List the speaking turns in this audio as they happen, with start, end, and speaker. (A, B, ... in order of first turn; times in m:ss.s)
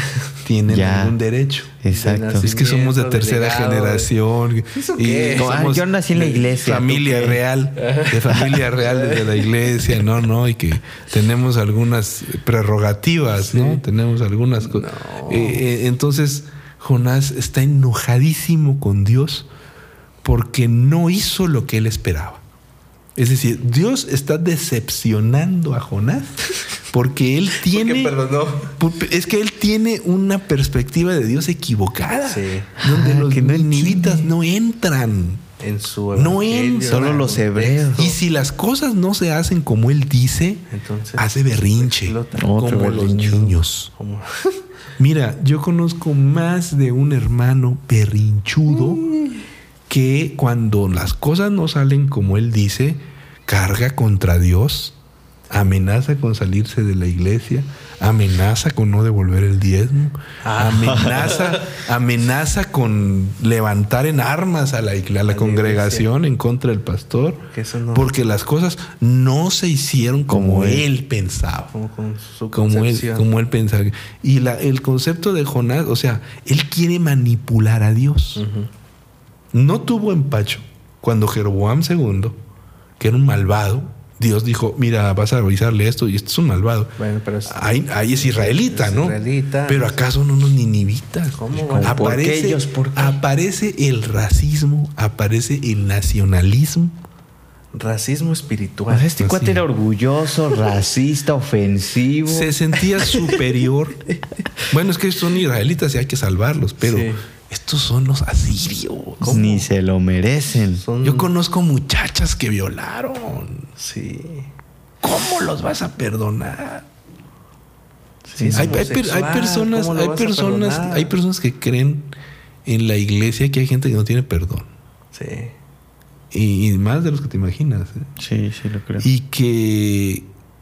0:00.4-0:01.7 A
0:00.7-0:01.2 B
0:01.8-0:02.5 B
0:01.9-0:04.1 C
0:02.4-0:19.5 A
0:04.7-0:05.5 C
0:05.3-0:07.4 B
0:07.8-0:09.4 C
0:13.3-0:13.8 C
0:14.6-0:15.6 C
0:20.2-0:22.4 A
0:23.2-0:28.2 A
0:27.6-0:28.7 C
0:28.7-0:35.4 A
0:32.2-0:32.7 C
0:32.8-0:34.3 B
0:35.6-0:38.2 C
0:36.1-0:37.3 A
0:36.9-0:38.0 B
0:38.0-0:40.6 A
0:40.7-0:43.2 C
0:41.2-0:43.9 A
0:42.3-0:43.5 B
0:44.0-0:44.6 C
0:45.0-0:49.1 A
0:48.8-0:49.4 C
0:49.9-0:54.9 A
0:55.5-1:11.7 A
1:00.4-1:01.6 C
1:00.8-1:01.2 B
1:05.3-1:06.1 C
1:07.5-1:08.1 C
1:10.3-1:10.8 B
1:11.7-1:13.3 C
1:12.5-1:18.4 A
1:18.4-1:18.7 C
1:19.5-1:22.4 A
1:23.0-1:26.9 A
1:27.0-1:30.0 C
1:27.5-1:29.2 A
1:29.7-1:37.0 A
1:31.4-1:32.2 C
1:31.6-1:33.2 B
1:37.7-1:39.1 C
1:38.9-1:42.5 B
1:39.2-1:39.6 A
1:42.3-1:44.0 A
1:44.7-1:49.4 A
1:46.8-1:47.2 C
1:49.2-1:49.7 C
1:49.3-1:50.8 B
1:50.7-1:51.3 C
1:51.0-1:53.7 A
1:53.8-1:54.5 C
1:55.0-1:56.8 A
1:58.3-1:58.8 B
1:58.4-2:01.1 C
1:58.5-2:02.1 A
2:02.6-2:04.7 A
2:05.1-2:05.5 C
2:06.3-2:08.1 A
2:08.2-2:09.1 B
2:09.0-2:10.3 A